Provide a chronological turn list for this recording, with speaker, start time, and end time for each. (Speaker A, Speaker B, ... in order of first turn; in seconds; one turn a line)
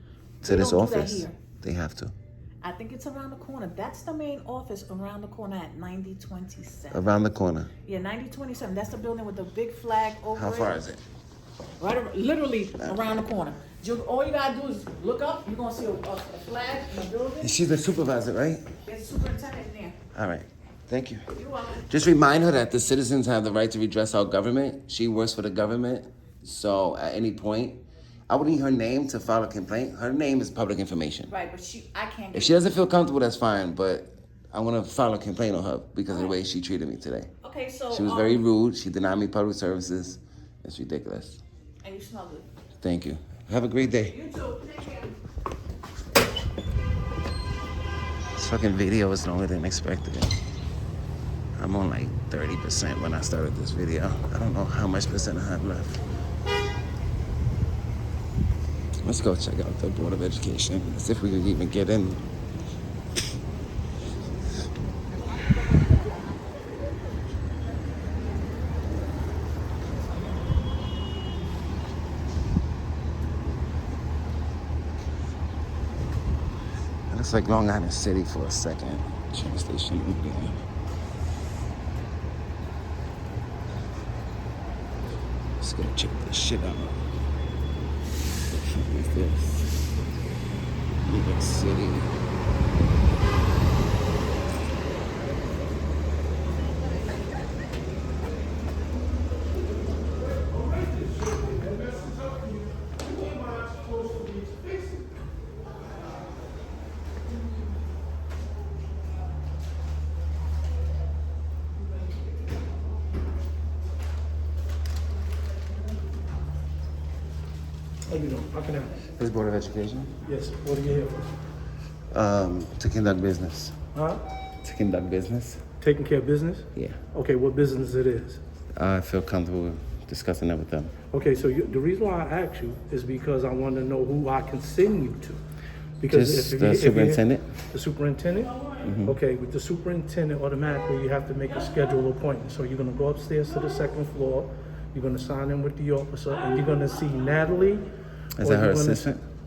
Speaker A: 0.4-2.1
Speaker B: 0.4-1.4
Speaker B: 2.6-7.1
Speaker A: 6.9-7.7
Speaker B: 7.8-10.8
Speaker A: 10.3-11.0
Speaker B: 11.8-17.6
Speaker A: 17.4-18.7
Speaker B: 18.9-20.0
Speaker A: 20.1-21.3
Speaker B: 21.3-21.9
Speaker A: 21.8-31.3
Speaker B: 31.3-32.7
Speaker A: 32.3-37.3
Speaker B: 36.1-36.4
Speaker B: 37.4-38.4
Speaker A: 37.9-41.4
Speaker B: 41.8-42.5
Speaker A: 42.8-44.2
Speaker B: 44.1-45.1
Speaker A: 48.3-50.4
Speaker A: 51.6-56.0
Speaker A: 59.0-62.2
Speaker A: 77.1-80.6
Speaker A: 85.6-87.0
Speaker A: 88.5-89.8
Speaker A: 91.0-92.1
Speaker C: 118.1-119.0
Speaker A: 119.2-120.2
Speaker C: 120.2-121.4
Speaker A: 122.1-123.8
Speaker C: 123.9-124.2
Speaker A: 124.6-125.6
Speaker C: 125.8-128.4
Speaker A: 128.8-131.0
Speaker C: 131.1-135.4
Speaker C: 136.0-147.9
Speaker A: 136.1-137.5
Speaker A: 138.8-139.2
Speaker A: 148.4-149.2
Speaker C: 148.4-149.1